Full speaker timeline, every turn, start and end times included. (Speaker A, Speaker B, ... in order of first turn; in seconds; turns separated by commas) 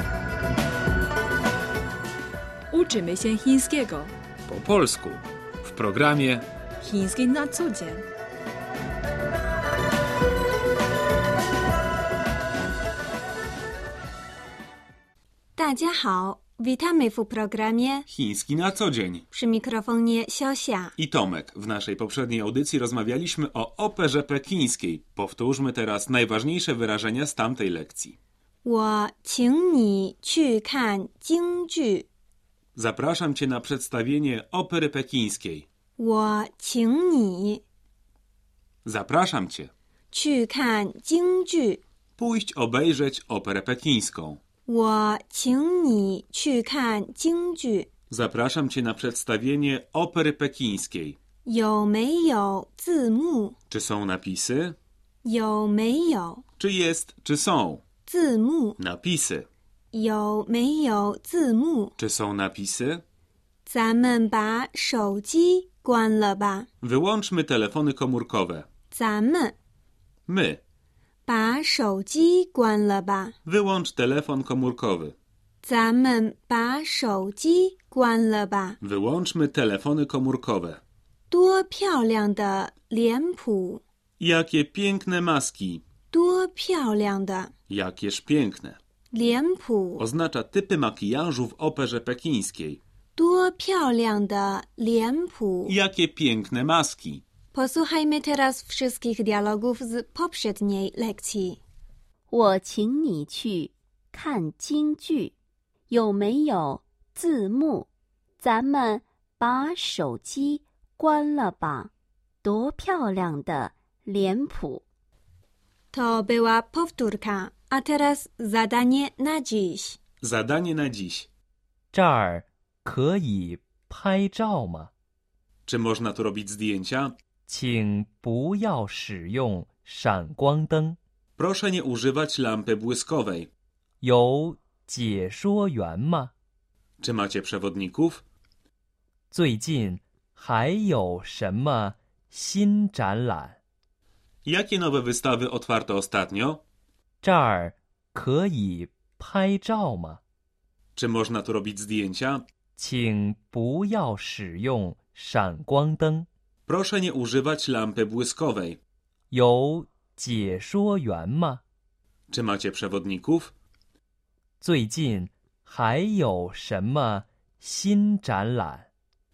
Speaker A: 2.7-4.1, Speaker B: 4.5-6.5, Speaker A: 6.8-8.0, Speaker C: 15.6-18.1, Speaker B: 18.1-19.3, Speaker C: 19.3-20.9, Speaker B: 21.0-28.2, Speaker C: 28.6-32.1, Speaker B: 32.8-35.7, Speaker C: 36.0-37.6, Speaker B: 38.9-39.7, Speaker C: 40.1-41.8, Speaker B: 42.2-44.4, Speaker C: 44.7-47.9, Speaker B: 48.1-51.2, Speaker C: 51.5-53.6, Speaker B: 53.7-54.8, Speaker C: 55.2-56.4, Speaker B: 56.6-57.8, Speaker C: 58.1-58.8, Speaker B: 58.8-59.5, Speaker C: 59.9-62.0, Speaker B: 62.0-63.0, Speaker C: 63.7-66.7, Speaker B: 66.8-68.7, Speaker C: 68.9-69.5, Speaker B: 70.3-70.6, Speaker C: 71.3-73.3, Speaker B: 73.5-75.2, Speaker C: 75.6-78.8, Speaker B: 78.8-80.8, Speaker C: 81.3-83.8, Speaker B: 84.2-85.8, Speaker C: 86.1-87.5, Speaker B: 87.7-88.8, Speaker C: 89.1-90.1, Speaker B: 90.0-92.8, Speaker C: 93.2-95.8, Speaker B: 95.7-97.2, Speaker C: 97.5-101.6, Speaker D: 102.3-105.3, Speaker D: 105.9-107.9, Speaker D: 108.4-111.9, Speaker D: 112.4-114.8, Speaker C: 115.9-120.0, Speaker B: 120.2-121.3, Speaker E: 121.9-124.9, Speaker B: 125.7-127.2, Speaker E: 127.5-131.0, Speaker B: 131.4-133.5, Speaker E: 134.0-136.3, Speaker B: 137.0-138.2, Speaker E: 139.3-143.6, Speaker B: 144.4-146.6, Speaker E: 147.2-150.2, Speaker B: 151.0-152.4, Speaker E: 152.8-156.3, Speaker B: 156.7-158.8, Speaker E: 159.3-161.6, Speaker B: 162.3-163.5, Speaker E: 164.6-168.9